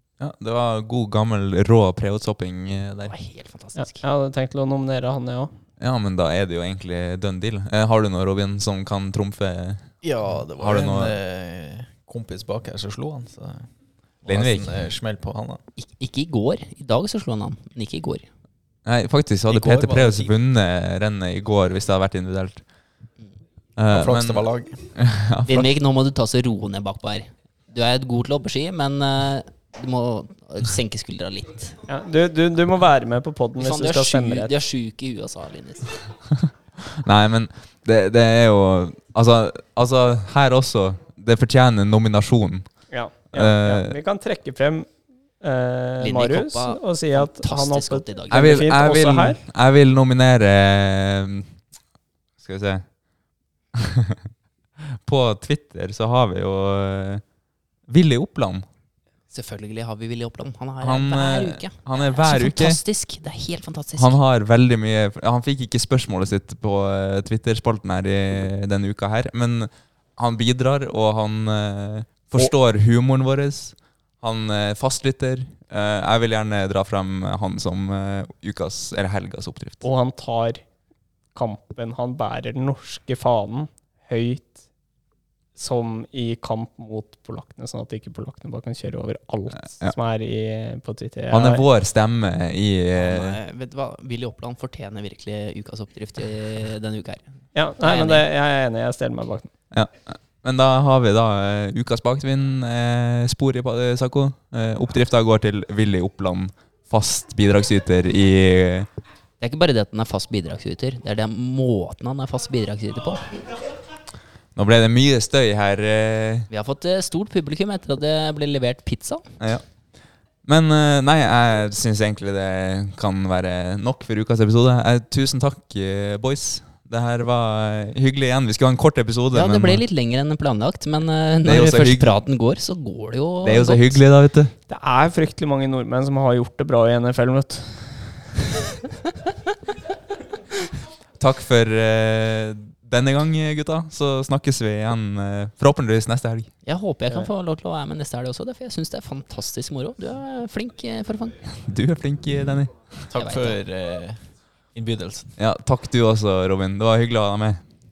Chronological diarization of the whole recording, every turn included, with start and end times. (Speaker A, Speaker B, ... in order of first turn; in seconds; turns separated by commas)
Speaker A: 0.2-3.1, Speaker B: 3.1-4.0, Speaker C: 3.8-5.5, Speaker A: 5.8-11.2, Speaker D: 10.0-15.6, Speaker A: 14.2-14.8, Speaker B: 15.8-18.3, Speaker A: 18.9-22.7, Speaker D: 19.5-20.3, Speaker A: 23.8-25.7, Speaker D: 23.9-24.9, Speaker B: 25.5-31.8, Speaker C: 31.9-34.5, Speaker B: 33.6-36.0, Speaker A: 36.9-44.0, Speaker C: 42.9-44.9, Speaker C: 45.4-49.4, Speaker B: 46.0-48.4, Speaker A: 48.3-51.6, Speaker A: 52.4-53.0, Speaker A: 53.8-54.2, Speaker A: 54.9-57.2, Speaker A: 57.9-58.7, Speaker B: 59.3-64.2, Speaker A: 60.8-62.8, Speaker A: 64.0-79.8, Speaker C: 79.8-80.7, Speaker C: 81.3-84.6, Speaker C: 85.6-91.7, Speaker A: 91.3-93.4, Speaker B: 92.9-98.3, Speaker C: 97.5-99.5, Speaker A: 99.7-108.9, Speaker B: 109.4-113.3, Speaker A: 114.5-116.5, Speaker B: 116.5-119.3, Speaker A: 119.4-129.8, Speaker B: 129.3-134.0, Speaker A: 131.4-132.2, Speaker A: 133.4-134.5, Speaker C: 134.7-138.3, Speaker A: 141.2-146.5, Speaker B: 146.6-151.4, Speaker A: 151.4-153.1, Speaker D: 153.1-155.3, Speaker B: 153.2-153.6, Speaker A: 155.4-157.6